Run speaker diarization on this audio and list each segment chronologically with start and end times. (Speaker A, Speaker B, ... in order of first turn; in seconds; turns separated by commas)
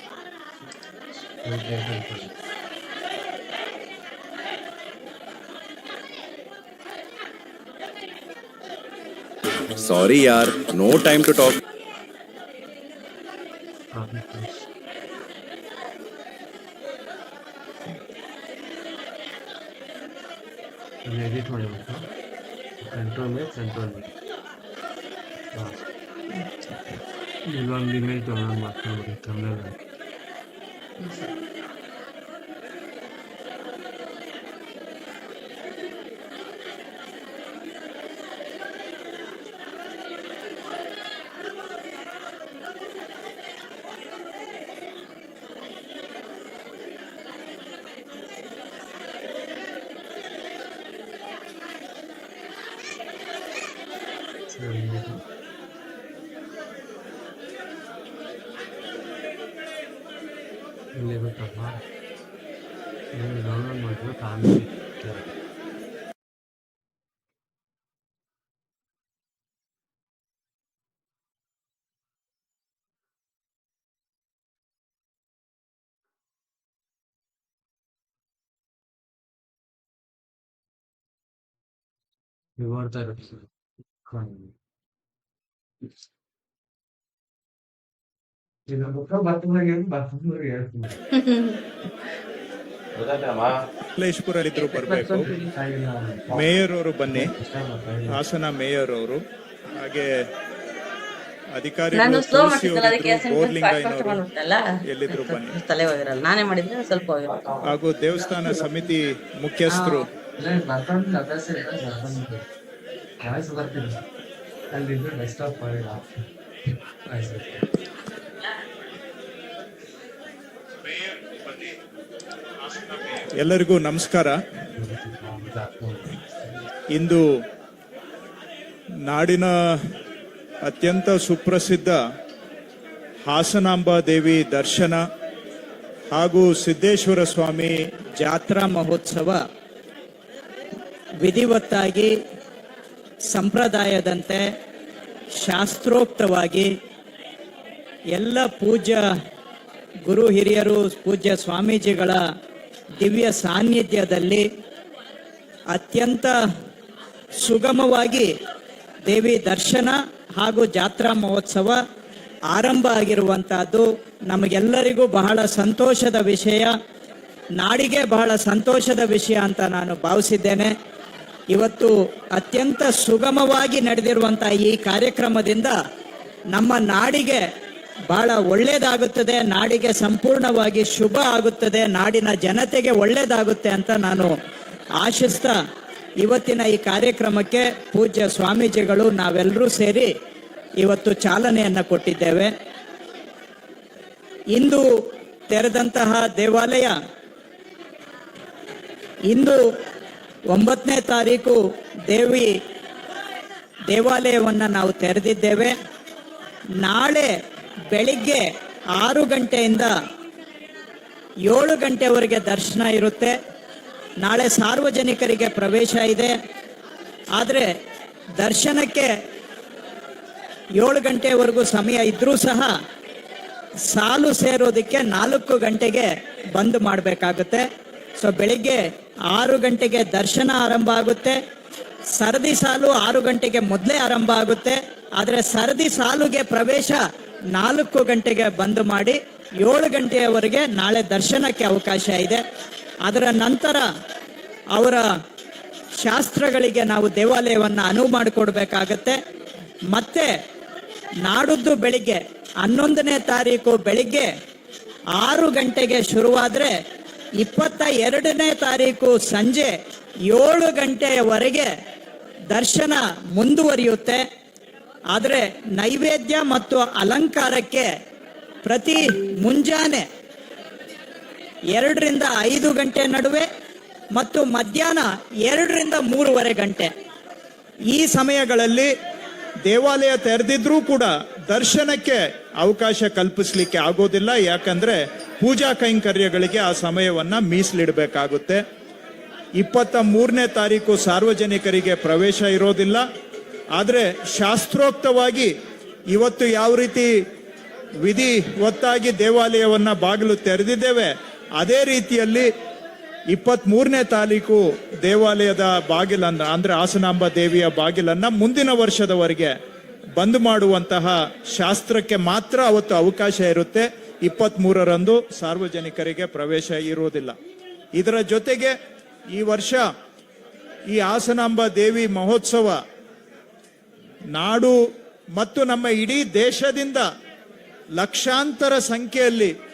Speaker A: 1.4-2.3, Speaker B: 9.7-11.6, Speaker A: 13.9-14.6, Speaker A: 21.0-22.1, Speaker A: 22.8-24.1, Speaker A: 25.5-25.8, Speaker A: 27.5-29.8, Speaker A: 54.5-55.2, Speaker A: 60.9-61.8, Speaker A: 63.1-65.3, Speaker A: 82.6-83.5, Speaker A: 84.0-84.5, Speaker A: 88.7-91.0, Speaker C: 91.2-91.5, Speaker B: 93.0-93.6, Speaker D: 94.0-95.3, Speaker A: 94.7-98.2, Speaker D: 96.3-97.3, Speaker D: 98.1-99.2, Speaker D: 99.7-100.2, Speaker D: 101.5-104.2, Speaker C: 101.9-107.4, Speaker D: 104.8-105.6, Speaker D: 107.6-110.1, Speaker A: 110.4-112.5, Speaker A: 113.2-114.0, Speaker A: 114.7-116.3, Speaker A: 117.1-117.7, Speaker D: 120.9-121.7, Speaker D: 122.7-124.4, Speaker A: 124.8-126.6, Speaker D: 126.9-127.2, Speaker D: 129.1-129.5, Speaker D: 130.7-132.0, Speaker D: 133.3-135.0, Speaker D: 136.1-137.7, Speaker E: 138.2-139.4, Speaker E: 141.2-142.1, Speaker E: 143.3-144.4, Speaker E: 145.4-146.7, Speaker E: 148.2-149.0, Speaker E: 150.1-152.2, Speaker E: 153.0-154.4, Speaker E: 155.7-156.3, Speaker E: 157.4-158.3, Speaker E: 159.1-161.8, Speaker E: 162.5-166.7, Speaker E: 167.6-170.7, Speaker E: 171.5-175.7, Speaker E: 176.6-177.4, Speaker E: 178.1-184.3, Speaker E: 185.0-185.6, Speaker E: 186.2-190.1, Speaker E: 190.8-192.5, Speaker E: 194.6-194.8, Speaker E: 195.5-196.9, Speaker E: 199.3-199.6, Speaker E: 200.5-201.6, Speaker E: 202.1-202.5, Speaker E: 203.9-205.8, Speaker E: 206.8-207.3, Speaker E: 207.9-208.4, Speaker E: 209.0-209.9, Speaker E: 211.5-213.3, Speaker E: 214.2-216.3, Speaker E: 217.4-217.7, Speaker E: 218.4-219.1, Speaker E: 220.8-222.7, Speaker E: 223.9-227.7, Speaker E: 228.2-228.8, Speaker E: 229.3-231.4, Speaker E: 232.2-237.0, Speaker E: 237.6-242.4, Speaker E: 243.1-243.8, Speaker E: 244.8-245.0, Speaker E: 246.0-249.2, Speaker E: 249.9-250.3, Speaker E: 251.2-254.3, Speaker E: 255.2-256.7, Speaker E: 257.4-259.7, Speaker E: 260.3-261.7, Speaker E: 262.5-264.2, Speaker E: 265.1-267.9, Speaker E: 268.6-270.1, Speaker E: 271.8-273.5, Speaker E: 274.1-276.9, Speaker E: 277.9-278.4, Speaker D: 278.4-278.9, Speaker D: 279.7-288.6, Speaker D: 289.6-293.0, Speaker D: 293.8-295.5, Speaker D: 296.1-297.1, Speaker D: 298.0-302.5, Speaker D: 303.3-309.5, Speaker D: 310.2-317.4, Speaker D: 317.9-318.8, Speaker D: 319.3-319.8, Speaker D: 320.9-322.8, Speaker D: 324.4-324.7, Speaker D: 325.4-327.1, Speaker D: 328.0-329.5